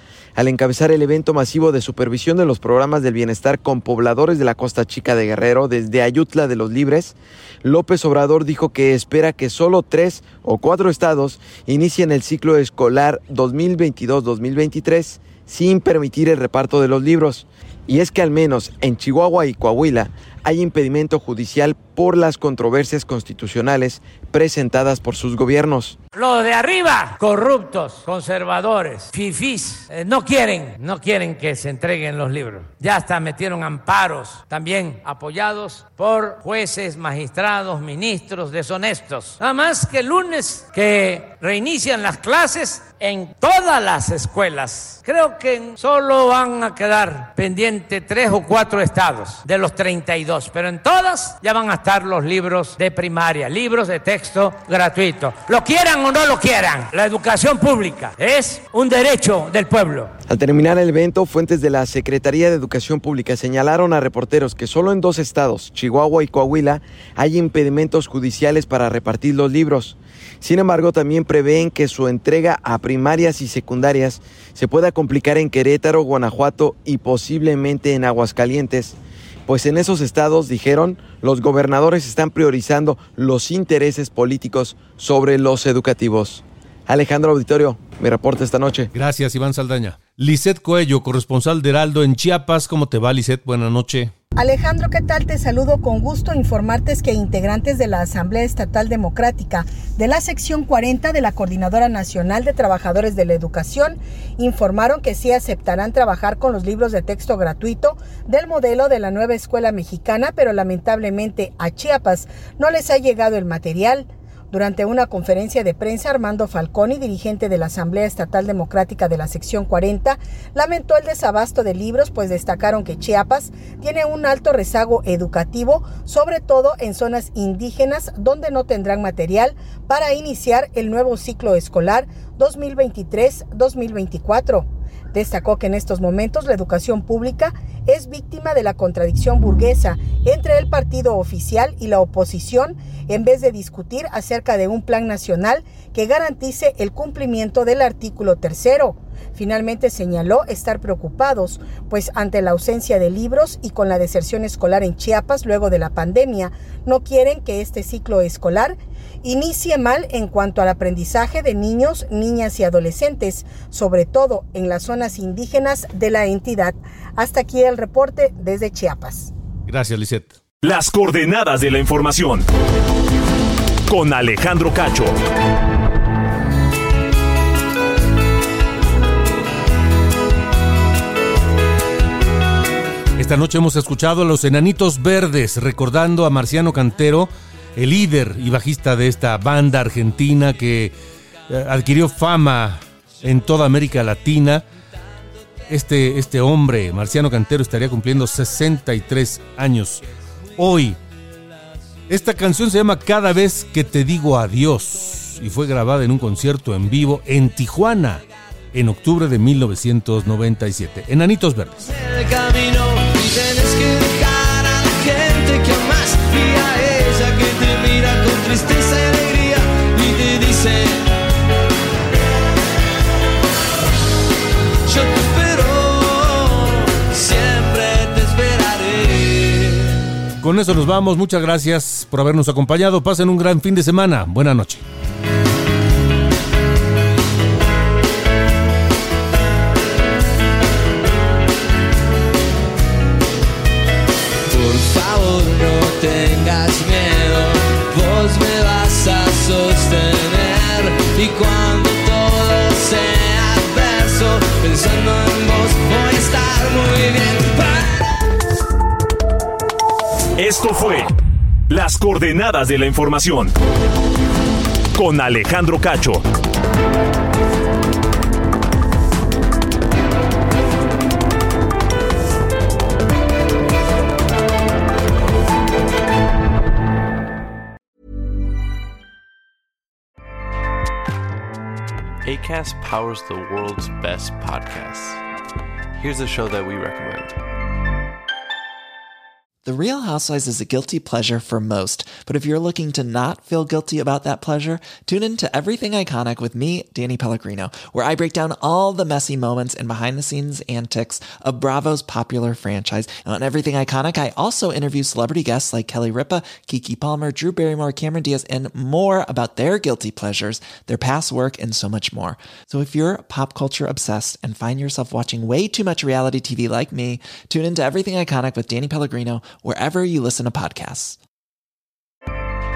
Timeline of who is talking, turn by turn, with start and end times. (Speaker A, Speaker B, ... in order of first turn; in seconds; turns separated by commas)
Speaker A: 0.4-26.0, Speaker B: 26.1-60.1, Speaker A: 60.3-88.9, Speaker C: 88.9-94.1, Speaker D: 94.4-169.3, Speaker C: 169.7-170.4, Speaker E: 170.6-172.5, Speaker E: 173.9-175.2, Speaker C: 183.2-190.9, Speaker C: 191.5-194.7, Speaker C: 195.7-200.1, Speaker C: 200.6-201.0, Speaker C: 202.1-211.8, Speaker F: 211.8-221.1, Speaker F: 224.9-230.0, Speaker C: 230.4-234.8, Speaker F: 244.5-258.2, Speaker E: 260.4-261.1, Speaker E: 261.7-263.6, Speaker E: 265.0-266.3, Speaker G: 282.2-285.2, Speaker G: 286.0-287.4, Speaker H: 289.6-321.2